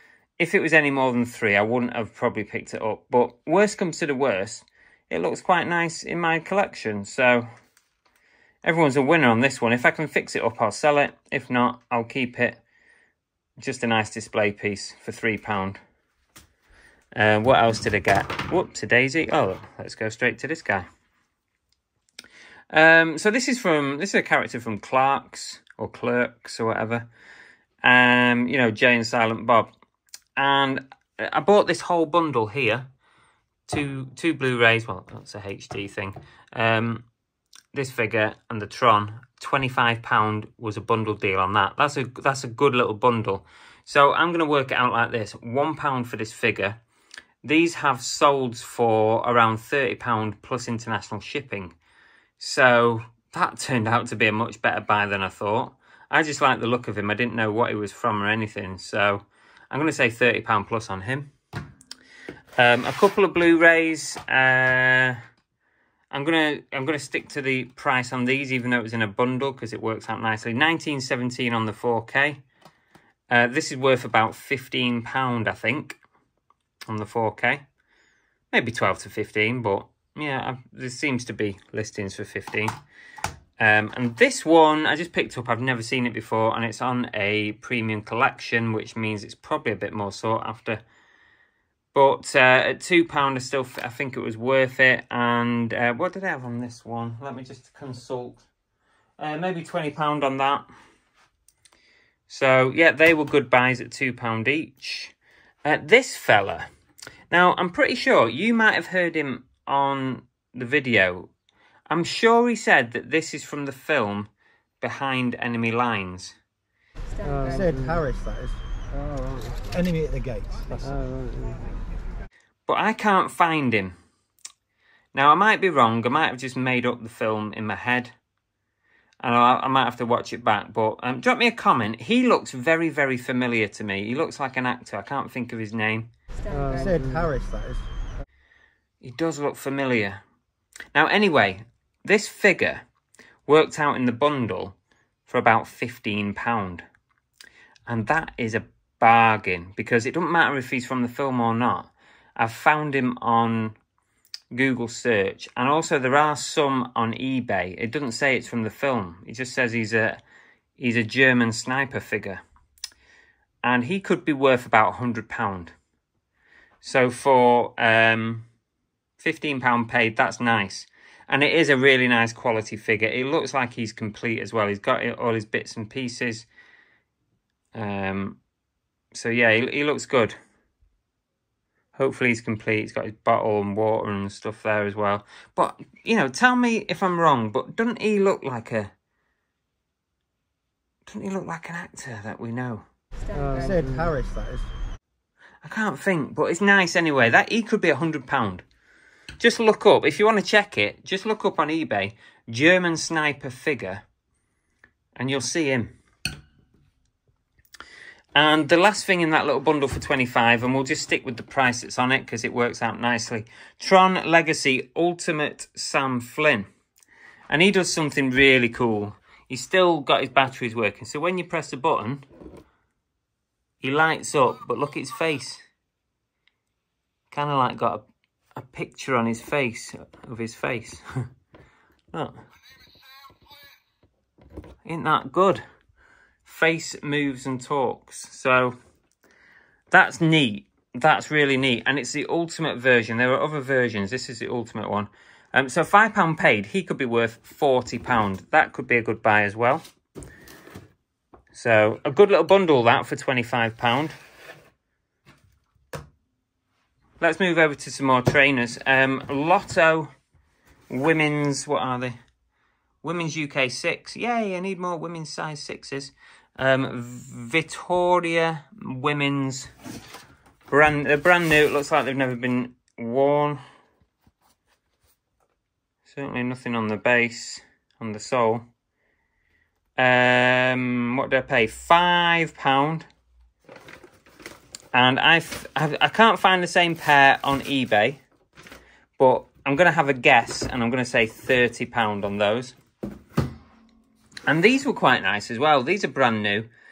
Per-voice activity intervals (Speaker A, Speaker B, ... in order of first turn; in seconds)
Speaker A: 0.4-7.5, 8.6-12.6, 13.6-15.8, 17.1-20.9, 22.7-27.1, 27.8-29.7, 30.4-32.9, 33.7-37.0, 37.7-46.8, 47.4-51.7, 52.4-61.3, 62.6-65.2, 66.1-72.4, 73.3-76.0, 76.9-77.6, 78.5-82.7, 83.6-90.8, 91.9-98.4, 99.2-100.7, 102.3-106.7, 107.3-111.3, 111.9-114.3, 114.8-116.3, 122.7-123.9, 125.1-128.1, 129.2-136.1, 139.0-140.2, 140.9-142.8, 143.5-144.7, 145.3-146.8, 147.9-153.8, 154.5-160.2, 160.8-162.4, 163.6-165.7, 166.8-168.4, 169.2-176.5, 177.7-178.4, 179.1-180.4, 181.9-188.9, 191.1-192.8, 195.6-198.6, 199.4-204.0, 205.2-205.9, 208.3-216.7, 217.5-222.2, 223.8-225.6, 227.3-228.0, 228.6-231.0, 234.8-235.6, 236.4-238.8, 239.9-249.8, 251.5-254.1, 257.2-260.1, 260.9-262.1, 263.0-269.7, 270.7-273.6, 276.1-278.6, 280.0-283.1, 284.9-288.2, 289.2-292.8, 294.5-296.7
Speaker B: 117.2-118.0, 118.9-119.7, 120.7-121.7, 136.5-137.3, 193.3-194.1
Speaker C: 117.5-118.6, 119.7-120.8, 136.7-137.9, 193.6-194.7